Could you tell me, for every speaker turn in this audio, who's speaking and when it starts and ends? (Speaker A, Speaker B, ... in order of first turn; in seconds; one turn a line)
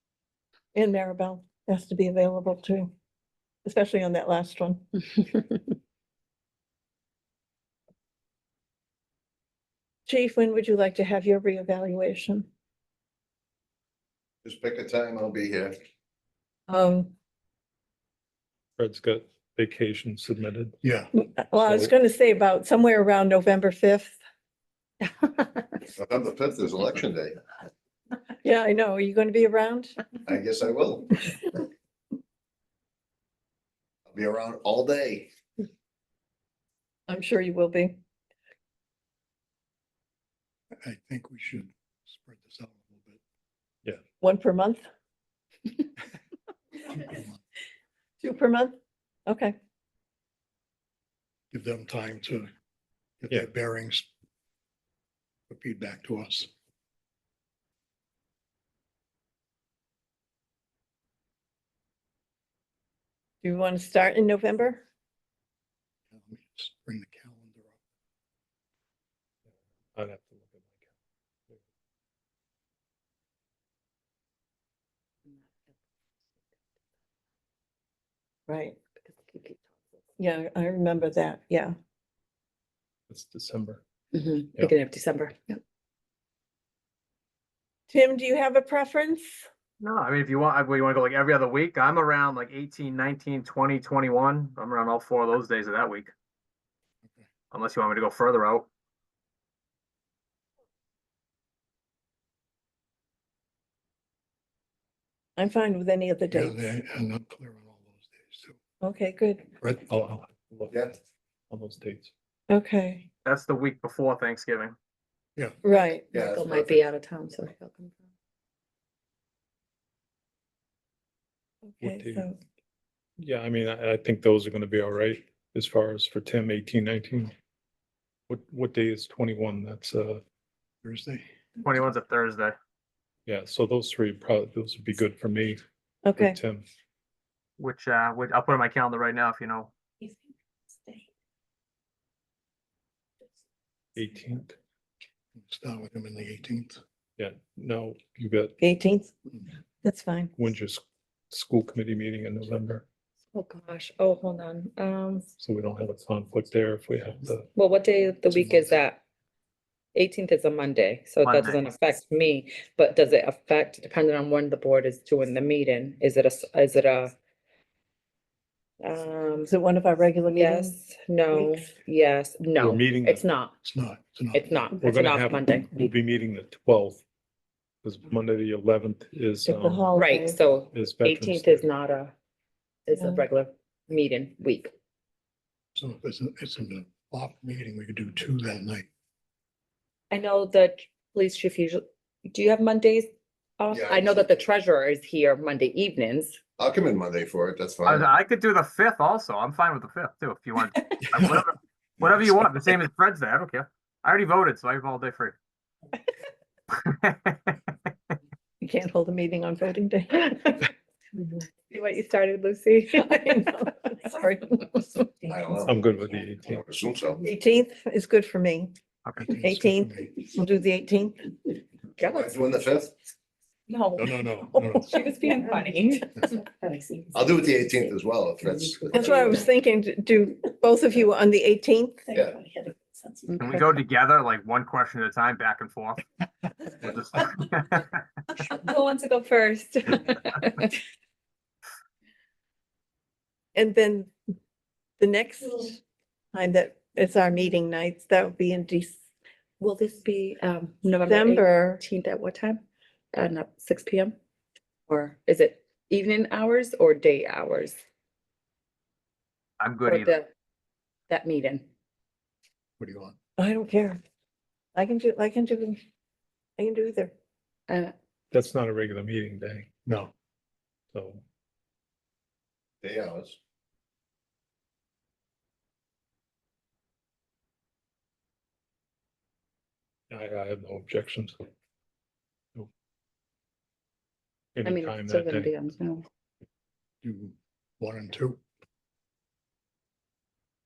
Speaker A: 0.7-2.9
Speaker A: 3.6-4.8
Speaker A: 10.1-12.5
Speaker B: 14.4-15.8
Speaker A: 16.7-17.1
Speaker C: 18.8-20.8
Speaker D: 20.8-21.1
Speaker A: 21.1-24.2
Speaker C: 21.6-21.9
Speaker E: 25.2-25.6
Speaker B: 25.9-27.4
Speaker A: 28.4-30.0
Speaker B: 30.2-31.1
Speaker B: 34.1-35.3
Speaker A: 37.1-38.0
Speaker D: 40.8-43.2
Speaker A: 44.2-44.9
Speaker D: 47.0-47.4
Speaker A: 48.2-49.6
Speaker D: 51.5-52.5
Speaker D: 53.2-54.1
Speaker D: 55.5-56.5
Speaker A: 63.4-64.8
Speaker D: 66.1-67.8
Speaker C: 70.0-70.7
Speaker E: 75.3-75.7
Speaker A: 78.5-78.8
Speaker E: 79.0-79.7
Speaker A: 80.2-81.8
Speaker C: 83.1-83.8
Speaker E: 84.1-85.6
Speaker A: 87.9-89.5
Speaker F: 89.8-96.1
Speaker F: 97.5-98.7
Speaker A: 105.4-106.7
Speaker D: 106.3-108.6
Speaker A: 108.8-109.5
Speaker C: 109.7-110.9
Speaker B: 110.7-111.0
Speaker C: 111.5-112.1
Speaker A: 112.5-113.1
Speaker F: 113.2-114.8
Speaker A: 115.6-116.0
Speaker E: 115.7-118.1
Speaker B: 116.1-116.8
Speaker A: 121.7-122.4
Speaker C: 121.8-122.3
Speaker C: 123.2-127.3
Speaker C: 128.3-130.2
Speaker D: 130.8-131.3
Speaker F: 131.6-132.6
Speaker C: 133.3-135.6
Speaker A: 136.1-136.4
Speaker C: 136.2-136.7
Speaker F: 137.6-139.7
Speaker C: 144.0-144.6
Speaker D: 145.3-146.8
Speaker C: 147.2-148.6
Speaker A: 148.6-149.1
Speaker A: 149.8-150.3
Speaker C: 150.4-152.8
Speaker E: 153.3-155.3
Speaker C: 155.4-157.5
Speaker E: 157.6-159.0
Speaker D: 158.3-158.8
Speaker E: 159.9-167.2
Speaker F: 161.2-161.6
Speaker E: 168.8-169.5
Speaker A: 169.5-170.8
Speaker E: 170.3-173.5
Speaker C: 172.6-173.2
Speaker D: 173.6-174.6
Speaker E: 174.3-175.7
Speaker C: 174.8-177.0
Speaker C: 177.8-180.0
Speaker A: 179.5-180.4
Speaker E: 179.9-182.2
Speaker C: 180.7-181.7
Speaker E: 182.9-184.7
Speaker D: 185.8-188.9
Speaker E: 190.1-196.4
Speaker B: 193.7-194.5
Speaker B: 196.6-198.2
Speaker F: 197.8-205.4
Speaker F: 206.7-207.6
Speaker A: 208.6-210.7
Speaker E: 211.7-213.5
Speaker A: 213.0-215.0
Speaker B: 215.3-215.7
Speaker C: 215.7-216.6
Speaker B: 216.5-217.2
Speaker A: 217.2-218.7
Speaker D: 219.2-220.1
Speaker A: 219.4-221.3
Speaker E: 222.0-222.3
Speaker B: 222.0-222.9
Speaker E: 223.7-227.3
Speaker D: 223.9-225.0
Speaker B: 227.1-229.4
Speaker E: 228.7-229.1
Speaker A: 228.9-233.2
Speaker B: 232.1-232.4
Speaker E: 233.3-233.8
Speaker F: 233.4-236.0
Speaker F: 236.8-238.0
Speaker E: 238.4-240.8
Speaker A: 243.6-244.1
Speaker A: 245.0-245.8
Speaker A: 246.3-249.0
Speaker E: 249.6-254.2
Speaker A: 251.1-251.8
Speaker E: 254.9-257.8
Speaker F: 259.6-260.1
Speaker E: 259.9-260.3
Speaker E: 261.1-261.7
Speaker D: 262.8-263.2
Speaker A: 263.4-264.0
Speaker A: 264.8-265.8
Speaker A: 266.6-267.1
Speaker C: 268.3-269.7
Speaker D: 269.9-270.1
Speaker C: 270.9-271.2
Speaker B: 272.8-273.4
Speaker C: 280.1-281.4
Speaker C: 284.6-285.5
Speaker E: 284.6-286.1
Speaker D: 287.0-288.4